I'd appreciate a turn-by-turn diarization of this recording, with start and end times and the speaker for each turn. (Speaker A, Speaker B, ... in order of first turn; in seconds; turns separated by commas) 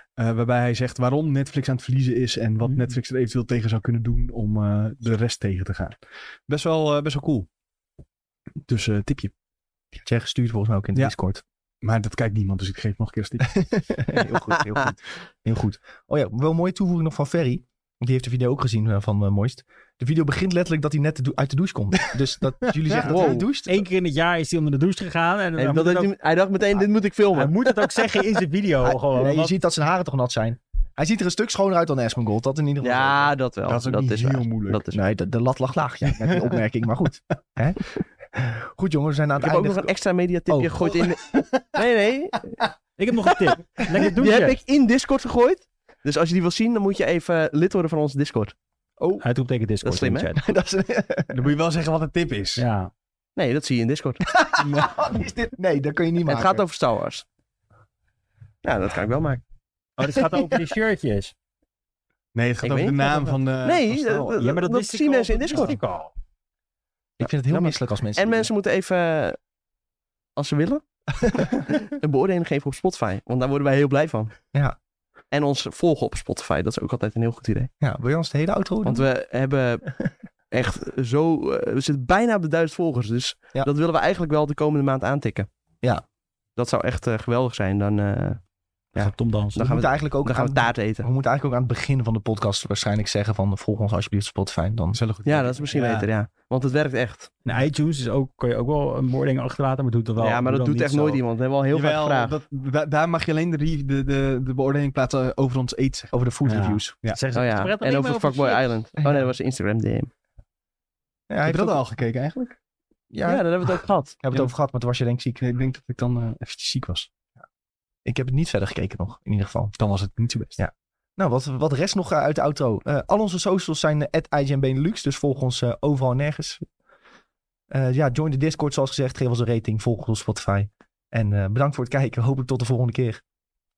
Speaker A: 0.2-7.5, Speaker B: 2.6-3.0, Speaker A: 8.7-9.3, Speaker C: 10.0-11.4, Speaker A: 11.8-13.9, Speaker C: 13.6-23.9, Speaker A: 22.9-23.1, Speaker D: 23.0-23.5, Speaker B: 23.6-26.1, Speaker D: 25.6-28.0, Speaker B: 27.3-29.5, Speaker C: 28.8-33.3, Speaker D: 32.8-35.0, Speaker A: 33.7-34.8, Speaker C: 34.9-39.9, Speaker D: 39.4-42.6, Speaker C: 40.5-41.0, Speaker B: 43.0-44.6, Speaker D: 44.0-48.5, Speaker C: 49.0-49.2, Speaker B: 49.2-50.4, Speaker D: 49.8-50.3, Speaker C: 50.4-51.4, Speaker A: 51.3-52.6, Speaker B: 52.6-52.9, Speaker D: 53.4-54.2, Speaker C: 54.3-56.6, Speaker A: 54.6-54.9, Speaker D: 56.2-57.2, Speaker D: 58.6-59.4, Speaker B: 60.0-61.3, Speaker D: 60.1-60.4, Speaker A: 62.3-64.3, Speaker D: 62.6-65.8, Speaker B: 64.4-66.1, Speaker C: 67.2-68.5, Speaker D: 67.5-69.4, Speaker D: 70.3-70.8, Speaker C: 71.2-71.6, Speaker D: 71.7-74.3, Speaker D: 75.3-77.7, Speaker C: 77.8-79.1, Speaker D: 78.8-79.9, Speaker D: 80.5-85.5, Speaker D: 86.6-88.4, Speaker B: 89.0-89.6, Speaker D: 89.0-91.1, Speaker C: 89.6-95.0, Speaker A: 94.9-96.1, Speaker D: 95.2-97.3, Speaker B: 97.4-101.2, Speaker D: 100.2-102.4, Speaker A: 101.7-106.2, Speaker C: 106.1-106.9, Speaker B: 106.4-108.6, Speaker D: 107.3-110.1, Speaker C: 111.3-111.8, Speaker A: 111.5-112.5, Speaker C: 113.1-115.4, Speaker D: 113.2-114.2, Speaker A: 115.4-117.1, Speaker C: 118.0-119.7, Speaker A: 119.8-120.6, Speaker C: 120.6-126.6, Speaker C: 127.7-133.2